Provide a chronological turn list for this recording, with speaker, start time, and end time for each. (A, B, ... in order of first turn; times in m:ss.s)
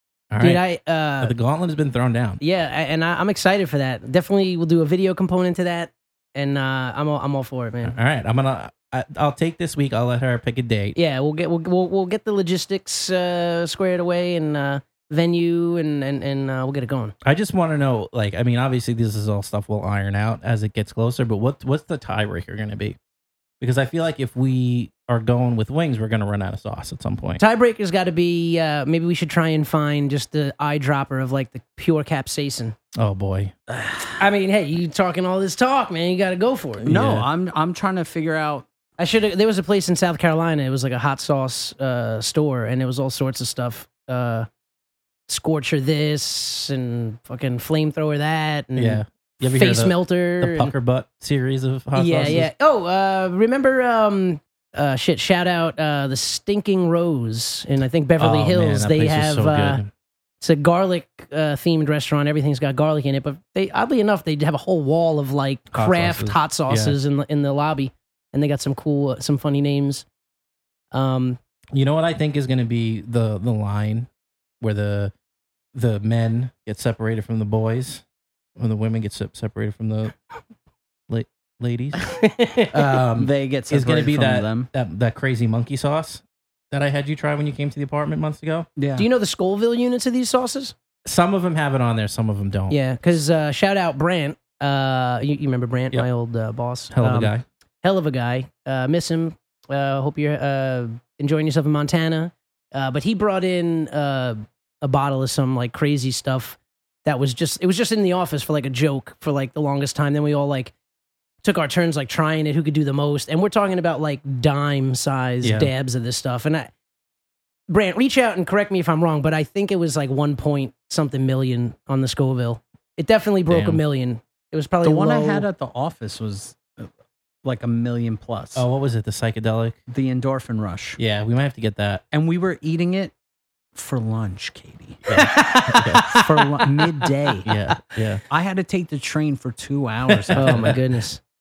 0:00.3-0:00.6 A
0:00.4-0:01.3 B
0:01.2-0:02.4 A
0:02.4-0:08.0 B
0:07.8-0:11.0 A
0:11.0-0:17.1 B
0:17.2-0:23.0 A
0:23.6-0:27.4 A
0:27.4-0:32.8 B
0:33.0-0:33.5 A
0:34.2-0:36.9 B
0:36.8-0:37.3 A
0:36.9-0:38.7 C
0:39.0-0:44.5 B
0:45.3-0:50.7 B
0:48.8-0:52.5 A
0:52.0-0:59.8 B
0:58.2-0:59.9 A
1:00.4-1:10.0 B
1:05.7-1:07.0 A
1:10.9-1:11.4 B
1:11.7-1:14.1 A
1:14.6-1:15.1 A
1:15.7-1:18.0 A
1:18.6-1:20.2 A
1:21.1-1:22.0 A
1:22.2-1:22.8 B
1:22.7-1:28.7 A
1:23.2-1:24.7 C
1:28.8-1:29.1 C
1:29.0-1:30.8 B
1:31.0-1:32.8 A
1:32.7-1:37.3 B
1:36.9-1:37.4 A
1:37.8-1:50.7 B
1:51.4-1:56.7 B
1:55.4-1:55.7 A
1:57.7-2:05.5 B
2:03.5-2:03.8 A
2:04.8-2:06.9 C
2:07.4-2:08.6 C
2:08.6-2:09.8 A
2:09.9-2:11.0 C
2:11.0-2:12.0 A
2:12.1-2:13.1 C
2:13.8-2:15.0 C
2:15.1-2:16.0 A
2:15.1-2:17.3 B
2:16.0-2:17.5 C
2:17.4-2:18.2 A
2:18.3-2:20.8 C
2:20.1-2:20.8 A
2:20.4-2:21.2 B